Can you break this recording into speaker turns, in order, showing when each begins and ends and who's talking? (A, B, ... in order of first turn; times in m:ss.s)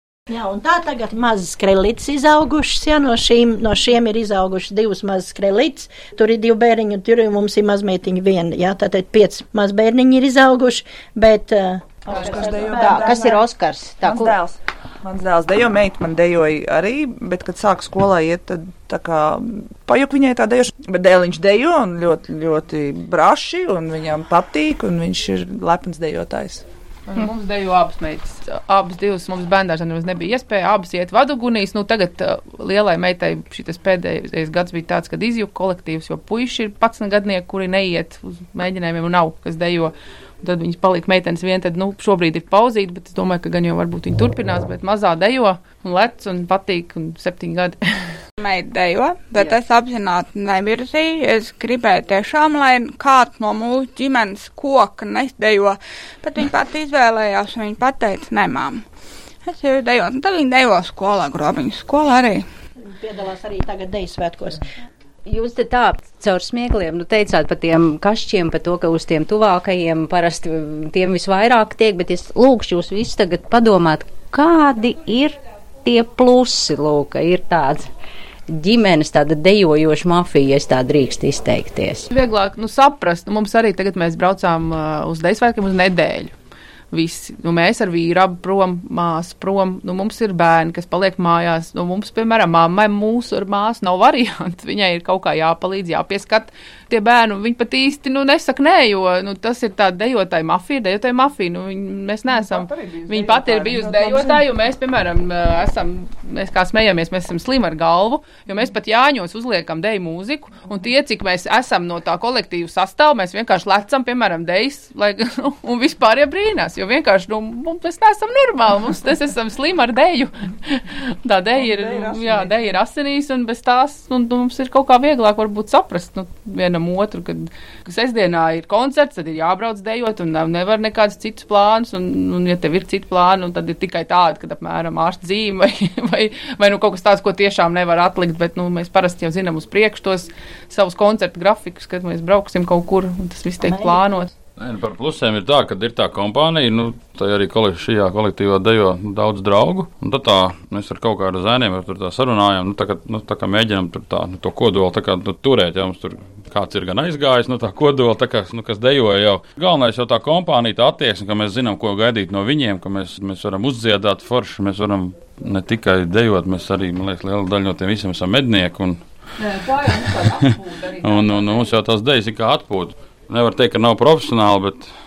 0:00.3-0:13.1 A
0:12.1-0:13.5 B
0:12.6-0:14.4 C
0:14.0-0:26.6 B
0:27.1-0:47.8 D
0:48.4-0:58.8 E
0:59.4-1:02.4 E
1:02.8-1:04.6 A
1:05.2-1:17.9 C
1:18.5-1:22.1 C
1:22.1-1:26.3 D
1:26.9-2:24.3 D
1:42.3-1:44.4 B
2:01.5-2:02.5 B
2:23.6-2:24.2 A
2:24.6-2:49.0 F
2:49.4-2:51.6 D
2:51.0-2:54.9 F